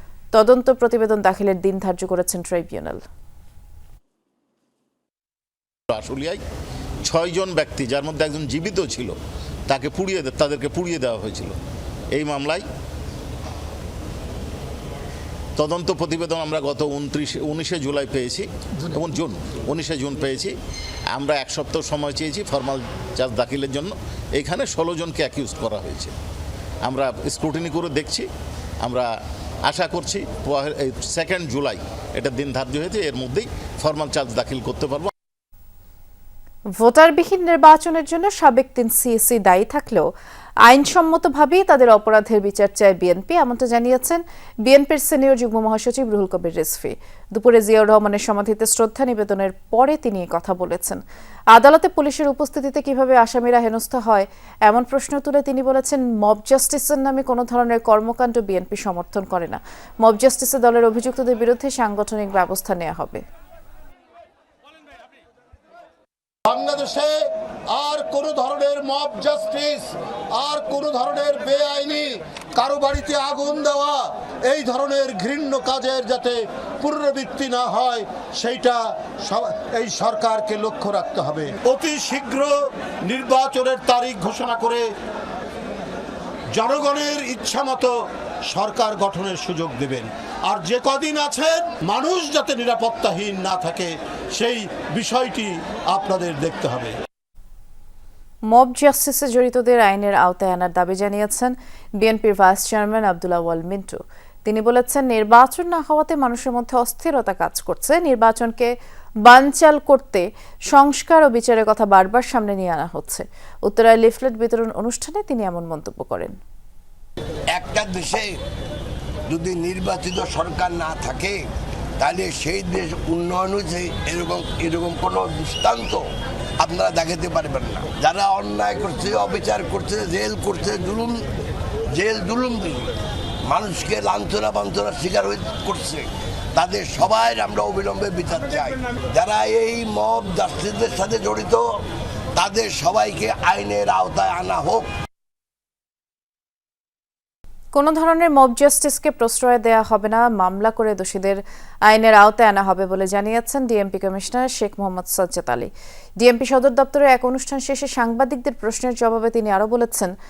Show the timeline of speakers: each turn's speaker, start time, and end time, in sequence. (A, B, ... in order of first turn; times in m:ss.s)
0:00.3-0:03.0 A
0:05.9-0:06.4 B
0:07.1-0:09.2 B
0:09.7-0:11.6 B
0:12.1-0:12.6 B
0:15.6-0:20.5 B
0:21.1-0:26.1 B
0:26.8-0:28.3 B
0:28.8-0:29.1 B
0:29.7-0:35.1 B
0:36.8-0:40.1 A
0:40.6-0:51.0 A
0:51.5-1:03.2 A
1:06.5-1:07.2 C
1:07.7-1:22.5 C
1:23.0-1:24.9 C
1:26.6-1:27.9 C
1:28.5-1:36.9 C
1:38.5-1:48.7 A
1:49.2-1:56.4 A
1:57.5-1:58.4 D
1:59.3-2:01.4 D
2:02.0-2:06.0 D
2:06.6-2:11.2 D
2:11.9-2:12.9 D
2:13.5-2:21.6 D
2:22.4-2:24.9 D
2:27.7-2:40.1 A